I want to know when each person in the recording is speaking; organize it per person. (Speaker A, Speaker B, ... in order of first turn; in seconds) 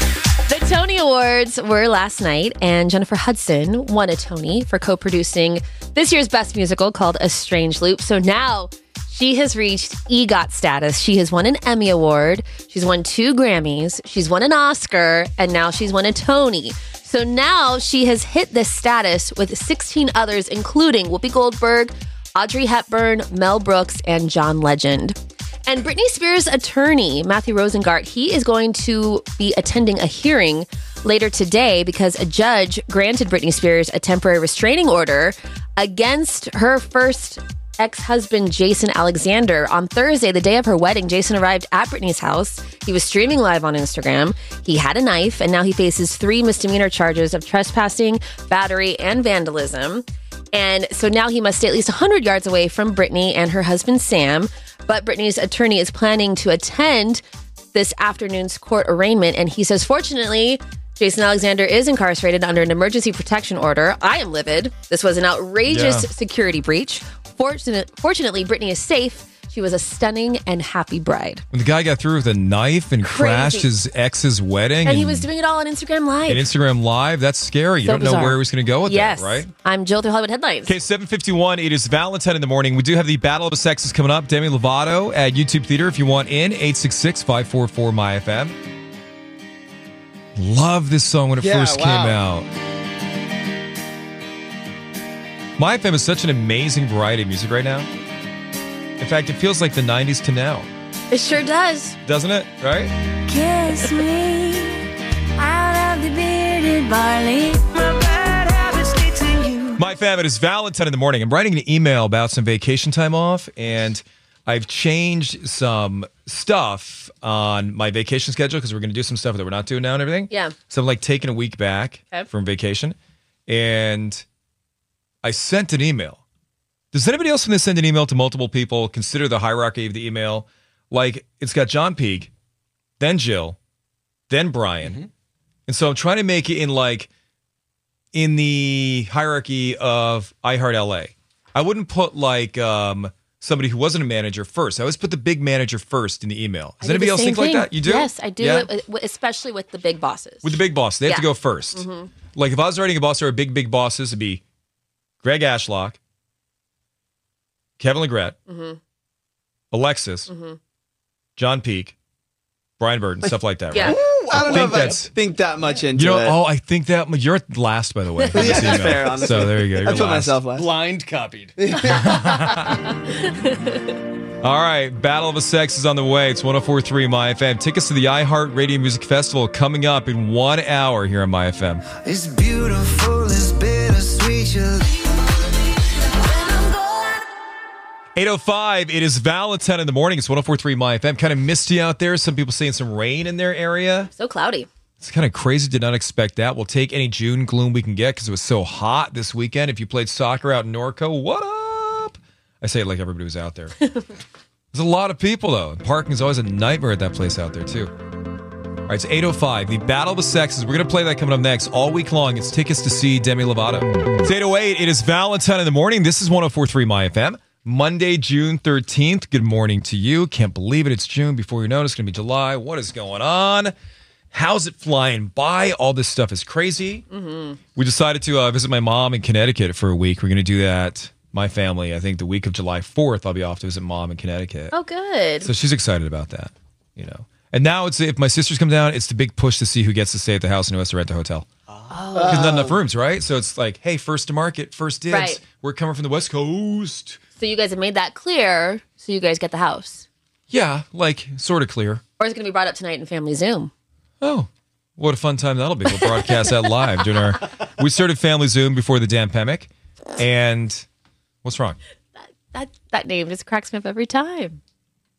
Speaker A: 0.5-57.2, 57.7-71.4, 73.0-73.7, 74.8-76.5, 77.8-80.7, 101.1-102.0, 120.3-120.5, 146.8-152.1, 158.5-158.8, 160.3-160.6, 163.7-164.0, 194.1-194.7, 227.1-227.6, 234.7-235.5, 241.9-242.5, 245.1-245.4, 247.4-250.1, 252.2-253.7, 256.0-256.6, 262.2-264.6
Speaker B: 65.7-66.1, 71.5-75.3, 76.3-79.5, 80.7-88.5, 90.4-92.5, 95.6-97.9, 99.0-100.7, 102.0-102.9, 109.8-123.0, 123.5-124.2, 125.2-126.2, 126.9-132.3, 133.0-133.6, 134.3-135.0, 135.7-137.1, 138.1-148.7, 150.4-154.4, 155.2-156.0, 157.8-158.3, 159.7-160.3, 161.4-161.9, 162.8-165.1, 165.9-170.4, 171.8-172.8, 174.4-181.8, 188.2-194.1, 195.0-203.8, 204.7-207.9, 208.9-223.7, 224.3-227.1, 227.8-234.7, 235.4-241.5, 242.2-247.2, 250.5-252.0, 254.2-260.8, 261.4-261.8
Speaker C: 91.4-92.2, 163.8-166.4, 168.3-170.7, 171.6-172.3, 242.2-242.8
Speaker D: 103.3-104.7, 105.4-107.5
Speaker E: 134.8-135.1, 164.3-165.0, 170.5-171.8
Speaker F: 182.1-184.2